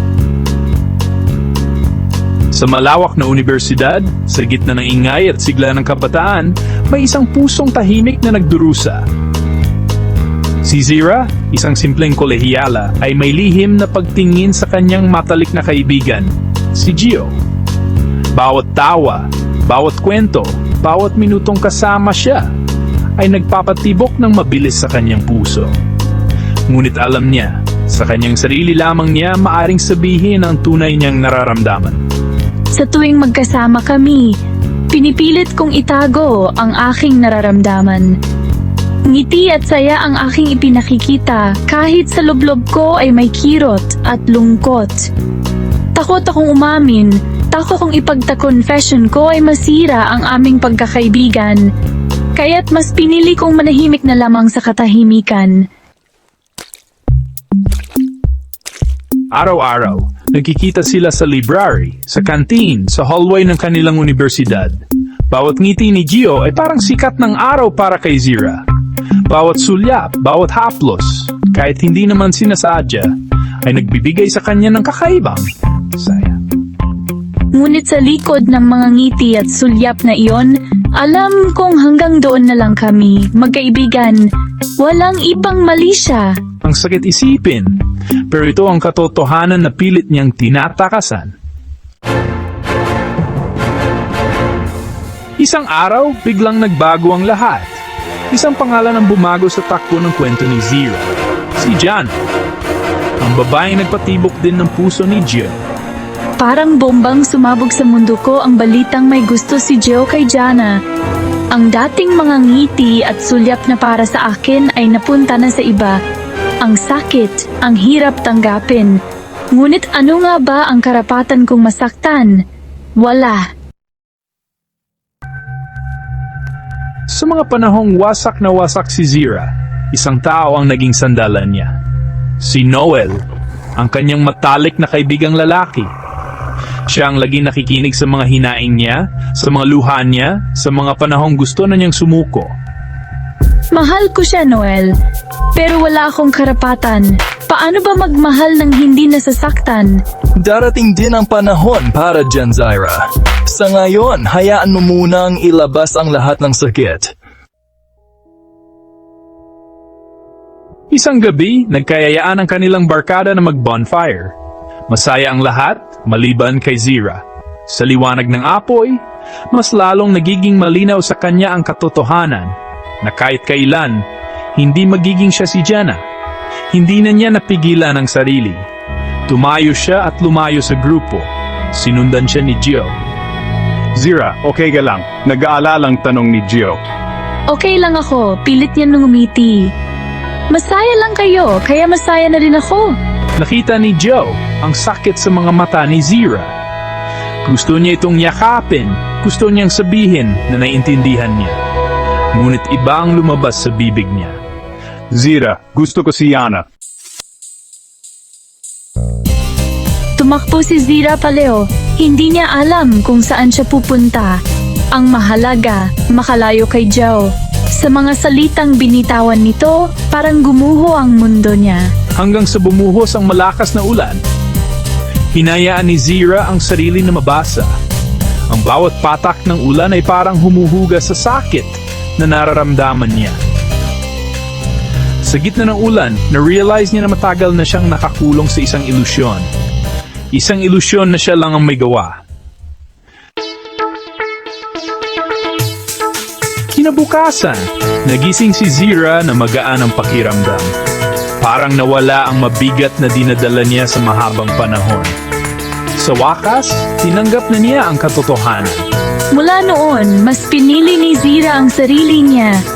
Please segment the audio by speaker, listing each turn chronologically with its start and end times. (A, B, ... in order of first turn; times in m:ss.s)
0:02.5-0:09.0 A
0:10.6-0:17.4 A
0:18.3-0:22.5 A
0:23.2-0:25.7 A
0:26.7-0:32.0 A
0:32.7-0:34.4 B
0:34.9-0:38.2 B
0:39.0-0:45.1 B
0:46.0-0:51.7 B
0:52.4-0:55.6 B
0:59.3-1:04.8 A
1:05.3-1:08.6 A
1:09.3-1:13.1 A
1:13.6-1:16.4 A
1:17.5-1:24.3 B
1:24.8-1:26.4 B
1:26.6-1:27.8 A
1:28.3-1:31.3 A
1:35.4-1:37.8 A
1:38.3-1:42.2 A
1:43.2-1:45.6 A
1:46.4-1:50.8 B
1:51.5-1:56.0 B
1:56.6-1:59.0 B
1:59.5-2:02.4 B
2:03.0-2:03.5 B
2:07.1-2:11.8 A
2:12.4-2:13.2 A
2:13.8-2:15.9 A
2:16.9-2:22.5 A
2:23.7-2:24.9 B
2:25.6-2:30.0 B
2:30.4-2:37.1 C
2:40.9-2:44.4 A
2:44.9-2:56.0 A
2:56.7-2:58.6 A
2:59.3-3:03.0 A
3:04.0-3:06.8 D
3:07.5-3:09.7 B
3:10.5-3:13.0 B
3:13.4-3:16.5 A
3:17.4-3:21.6 A
3:22.3-3:24.4 A
3:25.1-3:26.7 D
3:30.2-3:34.4 B
3:34.9-3:41.9 B
3:42.2-3:44.2 A
3:45.3-3:47.7 A
3:48.5-3:53.4 A
3:55.2-3:59.5 A
4:00.3-4:02.2 A
4:06.7-4:10.7 A
4:11.4-4:15.2 A
4:16.0-4:18.9 A
4:19.3-4:22.6 B